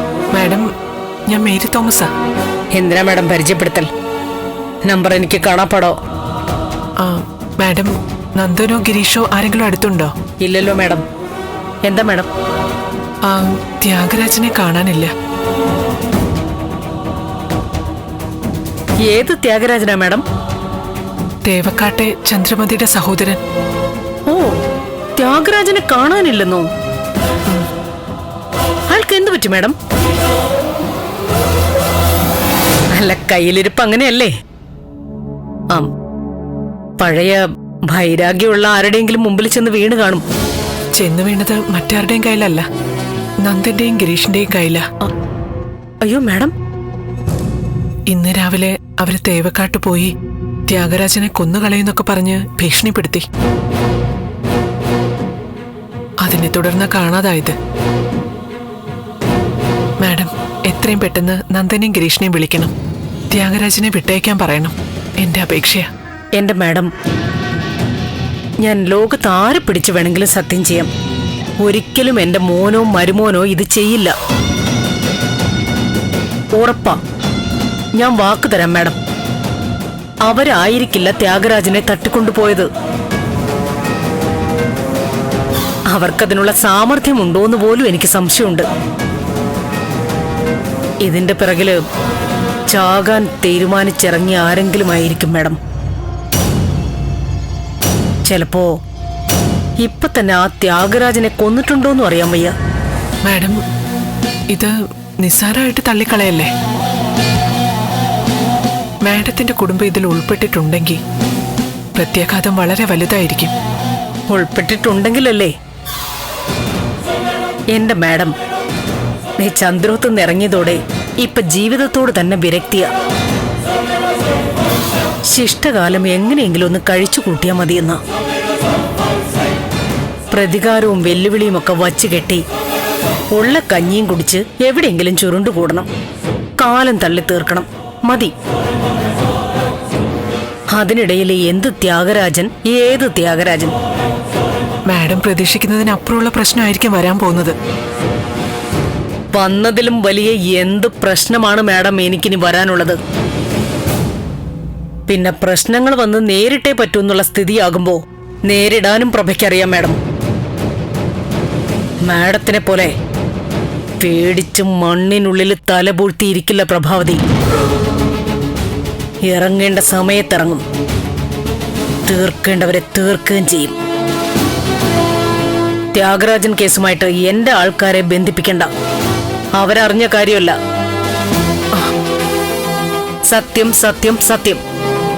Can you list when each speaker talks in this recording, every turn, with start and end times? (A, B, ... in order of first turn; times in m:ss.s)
0:00.3-0:00.7 A
0:01.3-0:02.1 A
0:02.7-0:03.9 B
0:04.8-0:06.0 B
0:07.0-0:10.1 A
0:10.4-0:11.0 B
0:11.8-0:12.3 B
0:13.2-0:15.1 A
0:19.1-0:20.2 B
0:21.4-0:23.4 A
0:24.3-0:24.6 B
0:25.2-0:26.7 B
0:28.9-0:29.7 B
0:32.9-0:34.3 B
0:37.0-0:40.2 B
0:41.0-0:42.7 A
0:43.4-0:44.9 A
0:46.0-0:46.5 B
0:48.1-0:50.1 A
0:50.7-0:53.2 A
0:56.2-0:57.6 A
1:00.0-1:02.7 A
1:03.3-1:05.9 A
1:06.4-1:06.9 B
1:08.6-1:10.9 B
1:11.6-1:14.1 B
1:16.5-1:17.0 B
1:18.0-1:19.0 B
1:20.2-1:22.7 B
1:25.9-1:28.7 B
1:31.0-1:31.8 B
1:32.7-1:35.6 B
1:38.2-1:38.7 B
1:39.8-1:42.5 B
1:43.2-1:43.6 A
1:44.5-1:46.5 A
1:49.0-1:51.0 A
1:51.9-1:53.5 A
1:54.3-1:55.5 B
1:57.7-1:58.3 B
1:59.4-2:02.9 B
2:05.3-2:08.0 B
2:10.3-2:12.4 B
2:13.3-2:15.9 B
2:16.6-2:18.3 B
2:20.7-2:23.7 B
2:24.9-2:27.6 A
2:29.3-2:33.0 B
2:35.1-2:40.0 B
2:42.0-2:42.9 B
2:44.0-2:47.2 B
2:49.2-2:50.6 B
2:52.0-2:53.7 B
2:55.9-2:58.7 B
2:59.6-3:00.6 B
3:03.3-3:04.6 B